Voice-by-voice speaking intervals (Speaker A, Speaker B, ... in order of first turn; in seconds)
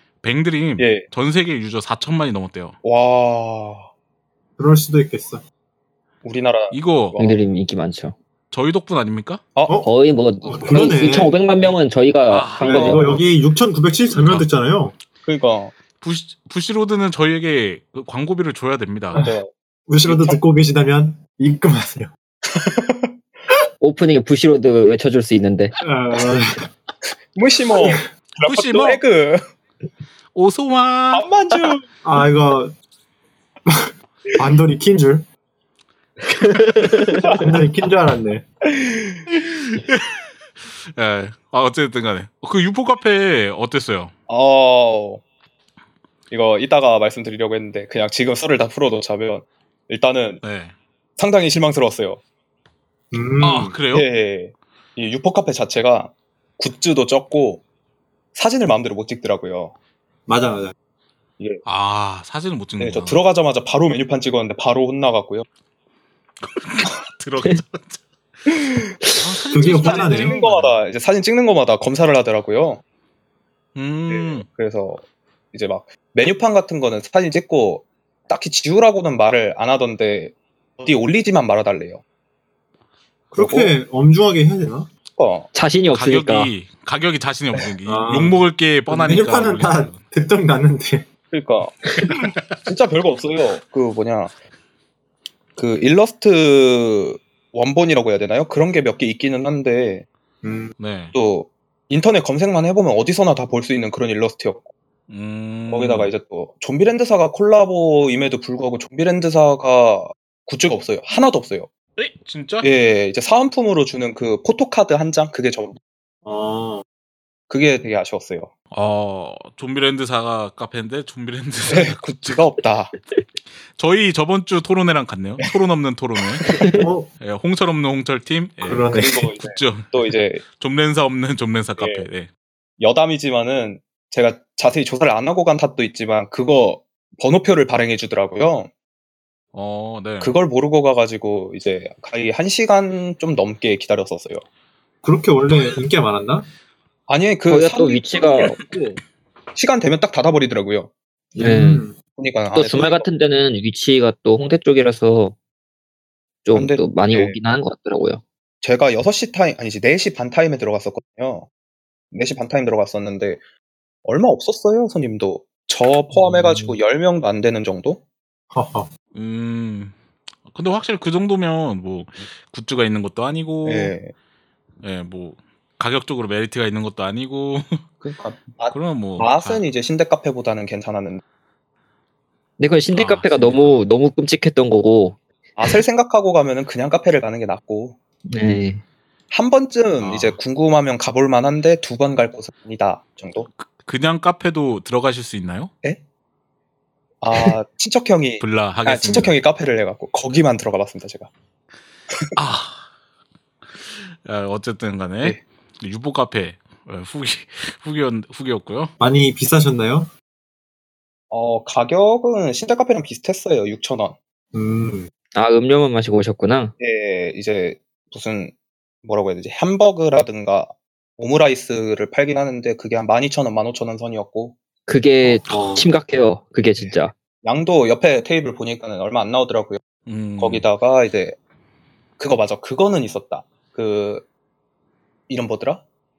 Speaker A: 0.2-2.8, 6.7-7.2, 8.5-9.4, 12.3-13.1, 14.2-14.5, 16.0-19.3, 28.4-29.0, 30.4-31.2, 39.3-44.1, 50.4-50.7, 53.4-54.1, 61.7-63.2, 66.4-68.0, 69.2-70.8, 73.8-74.5, 85.9-90.0, 92.0-92.6, 100.8-101.2, 105.1-106.1, 112.0-112.7, 118.7-122.4, 123.8-126.6, 127.2-132.3, 139.5-140.3, 169.2-169.9, 170.5-174.0, 174.8-177.8, 178.7-179.6, 182.9-183.6, 190.0-190.4, 193.6-195.7, 198.4-199.3, 202.4-202.9, 203.8-208.9, 225.3-225.6, 230.1-230.7
Speaker B: 0.8-1.1, 2.8-3.9, 6.2-7.4, 9.6-9.8, 15.2-15.7, 19.1-19.5, 20.0-20.4, 22.5-23.1, 27.4-29.4, 31.1-31.9, 37.2-37.5, 38.7-39.2, 44.3-45.2, 46.3-50.4, 51.2-52.2, 53.9-57.6, 58.4-59.7, 62.8-65.5, 69.6-72.8, 74.1-82.0, 83.3-83.7, 85.2-85.5, 91.3-92.0, 92.7-94.3, 95.6-100.0, 101.1-104.7, 105.7-111.7, 112.6-115.8, 117.5-118.5, 121.7-122.9, 128.9-130.4, 131.8-132.1, 132.8-138.7, 140.2-144.4, 147.1-148.6, 149.6-150.9, 152.2-153.1, 156.5-157.4, 158.6-161.5, 162.1-163.4, 164.0-168.0, 173.7-174.1, 178.0-181.2, 185.6-188.0, 189.3-193.5, 197.2-201.3, 211.3-214.2, 216.8-224.6, 226.8-229.8, 230.4-231.4, 232.2-234.3, 235.3-235.8
Speaker C: 4.6-5.4, 10.4-11.3, 12.6-14.9, 19.9-22.1, 25.8-26.7, 32.0-32.8, 33.7-35.3, 37.4-38.4, 53.1-53.8, 60.3-60.7, 69.5-70.3, 83.3-84.9, 87.9-91.1, 100.4-100.7, 116.2-116.8, 126.8-127.1, 128.6-129.3, 145.0-146.5, 148.5-149.0, 151.4-152.0, 168.5-168.9, 209.0-210.1, 214.5-215.1, 225.5-225.9
Speaker D: 7.2-8.2, 9.8-13.2, 23.8-25.7, 36.4-37.4, 85.5-86.5, 126.5-126.9, 147.5-148.6, 151.3-151.8, 152.5-155.4, 156.5-158.2, 166.3-166.7, 182.6-185.8, 188.3-188.8, 215.3-216.7, 224.9-227.2